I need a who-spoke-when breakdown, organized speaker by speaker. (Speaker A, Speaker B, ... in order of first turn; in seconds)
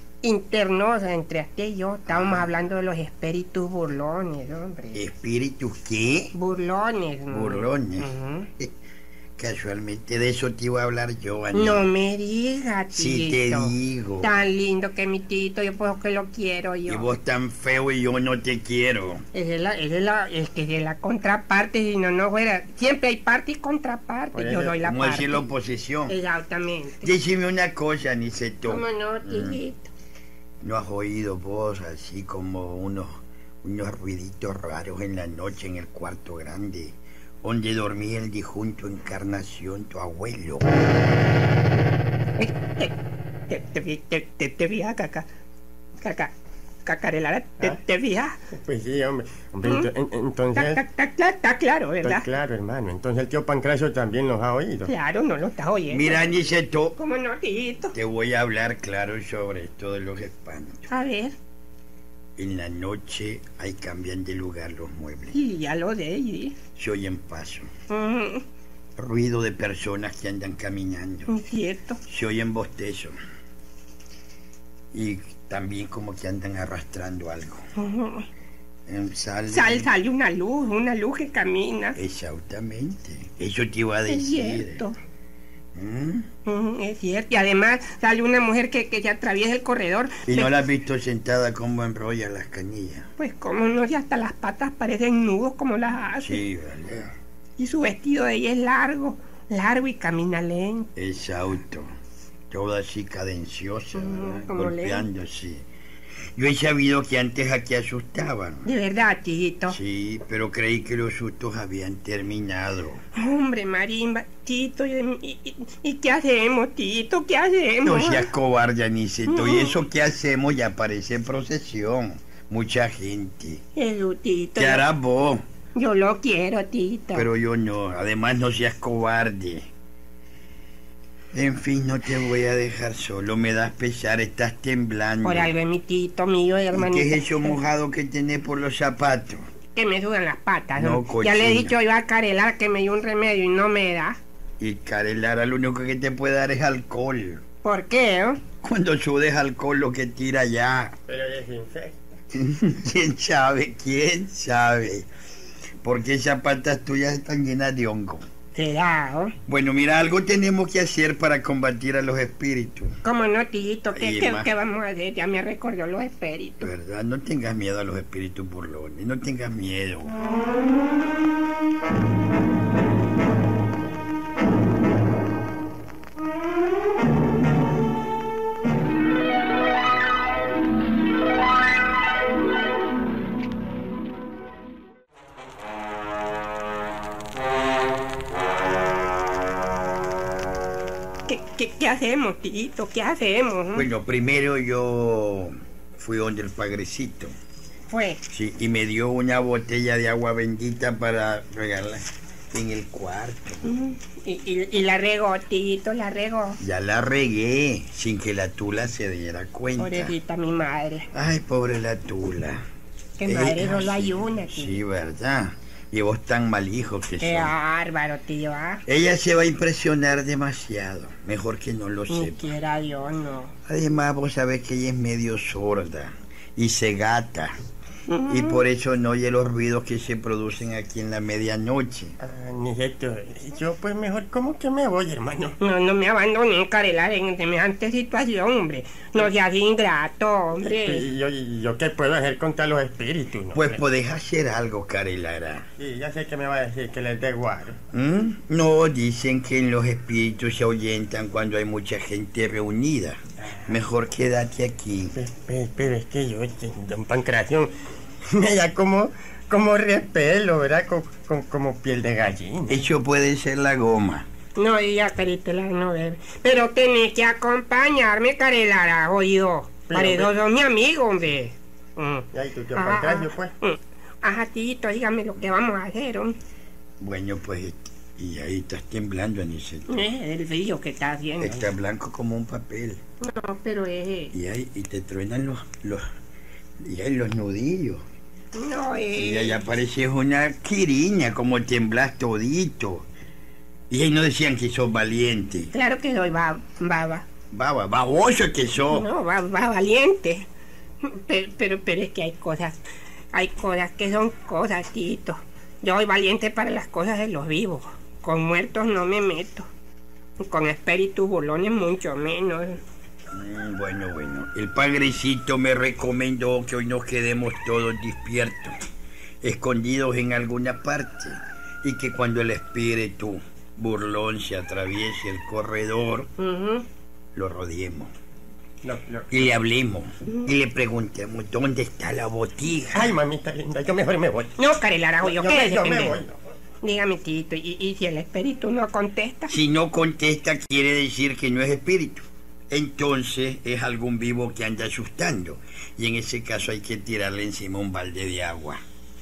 Speaker A: 0.2-5.0, 6.3-8.5, 11.5-17.1, 19.3-25.5, 26.1-27.1, 28.7-29.9, 42.4-42.9, 43.5-45.3, 46.0-46.3, 46.8-48.4, 49.6-49.9, 50.5-52.3, 54.9-56.4, 57.0-57.9, 60.9-61.4, 65.3-66.5, 67.9-68.4, 71.3-72.0, 77.8-78.2, 79.5-82.0, 84.0-85.0, 86.5-90.5, 93.2-96.4, 97.6-100.9, 103.9-105.1, 108.6-109.8, 113.1-118.3, 119.3-119.8, 123.7-124.8, 125.7-127.3, 135.2-137.6, 139.7-144.2, 147.6-148.4, 158.5-159.3, 163.0-166.7, 191.3-193.9, 197.9-198.2, 203.6-206.6, 209.8-211.1, 213.2-214.8, 217.2-218.8, 222.1-223.5, 228.1-228.6, 235.6-241.1, 264.5-276.4, 279.9-281.7, 283.2-284.3, 288.5-289.6, 295.7-297.2, 298.9-300.4, 301.0-302.8, 303.3-309.7, 310.4-312.8, 326.4-326.8, 334.6-336.2, 336.8-339.6
Speaker B: 2.0-2.5, 4.9-6.3, 7.3-8.7, 9.4-11.9, 12.9-14.3, 16.9-19.2, 24.8-26.1, 27.0-29.6, 30.6-40.6, 55.9-57.0, 57.9-60.9, 62.4-65.4, 66.8-67.7, 69.0-71.3, 72.1-73.1, 74.9-77.6, 78.9-79.9, 82.0-84.8, 85.7-86.2, 90.2-93.1, 96.2-97.1, 101.0-101.9, 102.5-105.6, 106.3-108.6, 109.7-113.0, 117.8-123.6, 124.5-125.4, 127.1-129.7, 131.3-135.5, 136.7-139.4, 140.8-141.7, 144.6-147.4, 148.6-150.9, 152.3-155.1, 155.8-158.2, 159.4-162.9, 163.9-164.5, 166.6-170.1, 193.7-197.3, 198.3-203.6, 206.6-210.1, 211.1-212.6, 213.2-217.5, 218.8-222.5, 223.7-227.5, 228.3-232.1, 243.5-245.6, 247.9-255.2, 262.7-264.3, 277.0-280.1, 281.4-283.0, 284.3-286.0, 286.8-288.0, 289.1-293.1, 293.9-295.7, 297.5-299.1, 313.3-318.7, 319.4-326.3, 327.3-328.1, 329.3-333.1, 339.5-348.8
Speaker C: 24.3-24.8, 48.5-50.8, 52.0-54.9, 151.1-151.9, 232.2-235.6, 240.6-243.8, 245.8-247.8, 255.1-257.7, 258.3-262.9, 269.9-270.3, 272.3-273.5, 328.8-329.6, 332.9-334.6, 335.2-336.4